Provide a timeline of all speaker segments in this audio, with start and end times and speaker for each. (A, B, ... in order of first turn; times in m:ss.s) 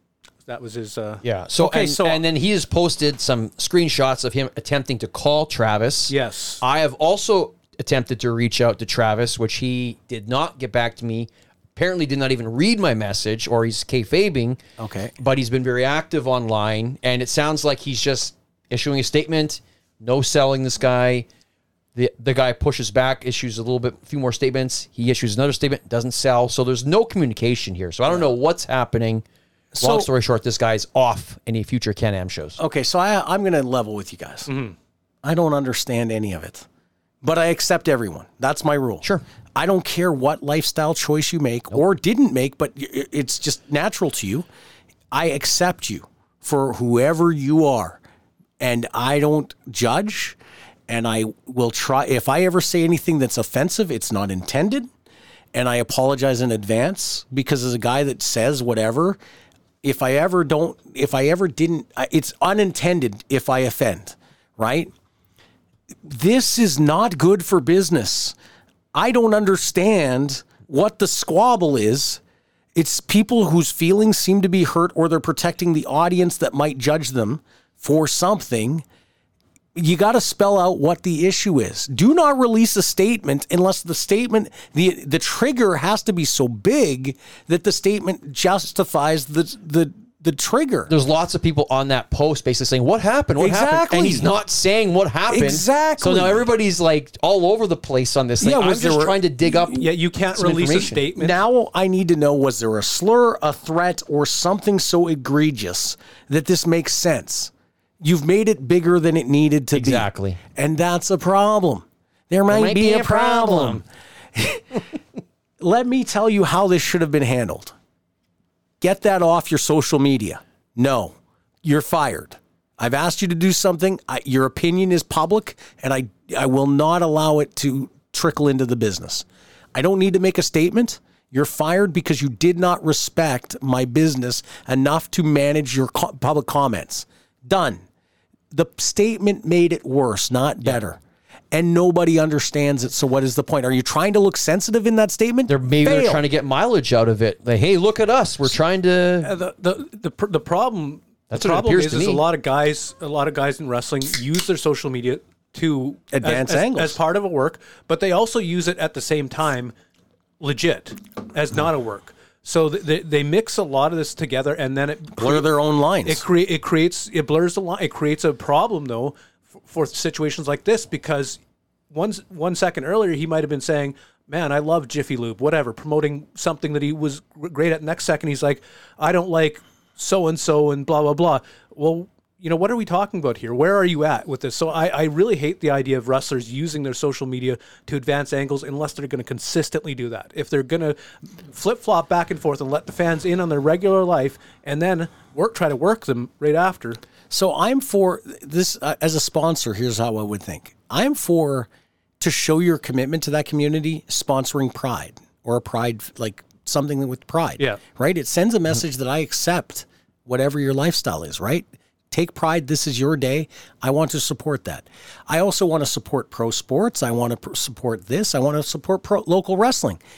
0:00.4-0:01.2 A
0:01.2-0:14.6 B
0:01.6-0:02.2 C
0:06.1-0:06.6 A
0:14.8-0:15.1 C
0:15.2-0:21.3 B
0:21.9-0:29.2 B
0:29.7-0:30.1 C
0:29.8-0:32.6 B
0:32.6-0:34.5 C
0:34.5-0:34.7 A
0:35.2-0:36.6 C
0:37.2-0:39.0 C
0:39.6-0:44.4 C
0:45.1-0:48.0 C
0:48.6-0:50.4 C
0:50.9-0:54.9 C
0:55.5-0:59.2 C
0:59.8-1:04.9 C
1:06.0-1:08.3 C
1:08.9-1:12.2 C
1:12.7-1:18.8 C
1:19.8-1:30.9 C
1:30.9-1:41.0 B
1:33.4-1:34.3 C
1:35.3-1:36.4 C
1:38.4-1:39.7 C
1:39.7-1:41.4 A
1:41.1-1:53.8 C
1:49.7-1:50.4 B
1:52.5-1:53.8 B
1:54.3-1:54.8 C
1:55.6-1:57.7 C
1:58.8-2:17.8 C
2:18.5-2:21.0 C
2:21.5-2:26.2 C
2:25.5-2:29.3 B
2:29.2-2:39.7 A
2:31.3-2:32.2 B
2:36.1-2:37.0 C
2:40.4-2:45.5 A
2:45.2-2:46.2 C
2:46.0-2:51.4 A
2:51.9-3:17.0 A
3:17.3-3:21.7 C
3:22.2-3:40.0 C